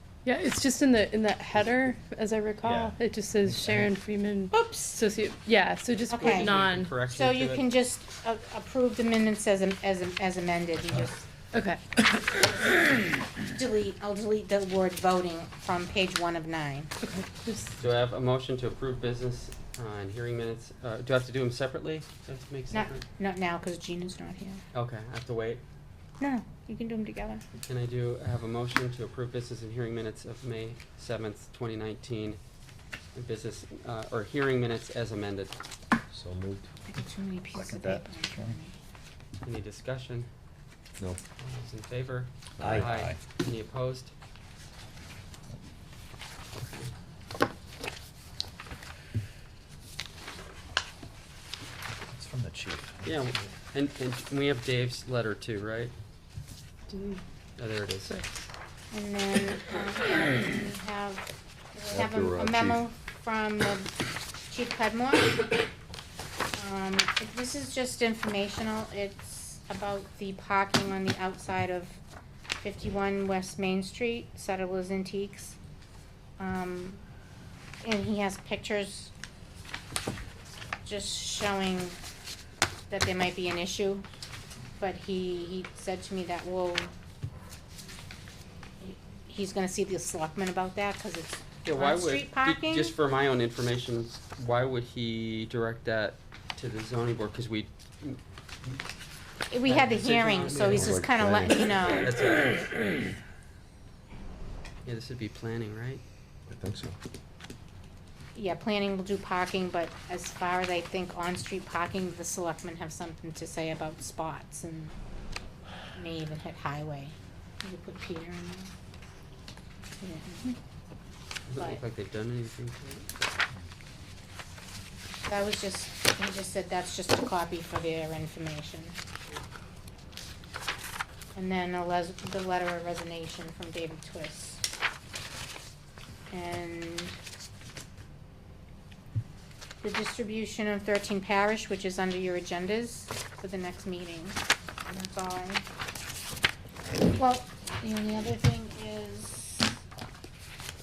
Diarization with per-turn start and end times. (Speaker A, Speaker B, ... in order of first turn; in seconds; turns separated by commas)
Speaker A: 0.2-7.0, Speaker B: 2.6-3.9, Speaker C: 4.5-5.0, Speaker C: 6.1-6.6, Speaker D: 6.1-7.6, Speaker C: 7.1-11.2, Speaker A: 11.5-12.1, Speaker C: 13.5-16.9, Speaker A: 17.0-17.8, Speaker D: 17.8-23.0, Speaker C: 22.7-24.6, Speaker D: 24.7-25.6, Speaker C: 26.2-27.4, Speaker D: 27.7-32.4, Speaker D: 33.1-35.5, Speaker E: 36.1-36.7, Speaker C: 36.9-38.8, Speaker B: 37.5-38.6, Speaker D: 39.4-40.3, Speaker D: 41.4-44.1, Speaker E: 42.6-42.9, Speaker B: 42.6-43.2, Speaker D: 46.5-46.9, Speaker B: 52.1-53.4, Speaker D: 53.0-55.9, Speaker A: 56.9-57.2, Speaker D: 57.6-58.1, Speaker C: 58.9-63.9, Speaker E: 61.9-62.8, Speaker C: 64.5-65.5, Speaker C: 66.5-72.0, Speaker C: 72.6-75.6, Speaker C: 76.4-77.0, Speaker C: 77.8-79.1, Speaker C: 80.8-82.0, Speaker C: 82.9-84.0, Speaker C: 84.8-86.9, Speaker C: 88.8-93.0, Speaker D: 91.7-98.8, Speaker C: 99.5-102.2, Speaker D: 99.7-101.1, Speaker E: 100.7-101.6, Speaker D: 102.0-102.6, Speaker D: 104.8-106.0, Speaker E: 106.5-107.0, Speaker C: 108.3-115.0, Speaker C: 116.0-118.7, Speaker C: 120.0-120.6, Speaker D: 121.5-123.1, Speaker C: 121.6-121.8, Speaker C: 125.3-129.0, Speaker C: 131.3-134.6, Speaker C: 136.3-137.2, Speaker C: 139.8-145.6, Speaker C: 147.1-149.8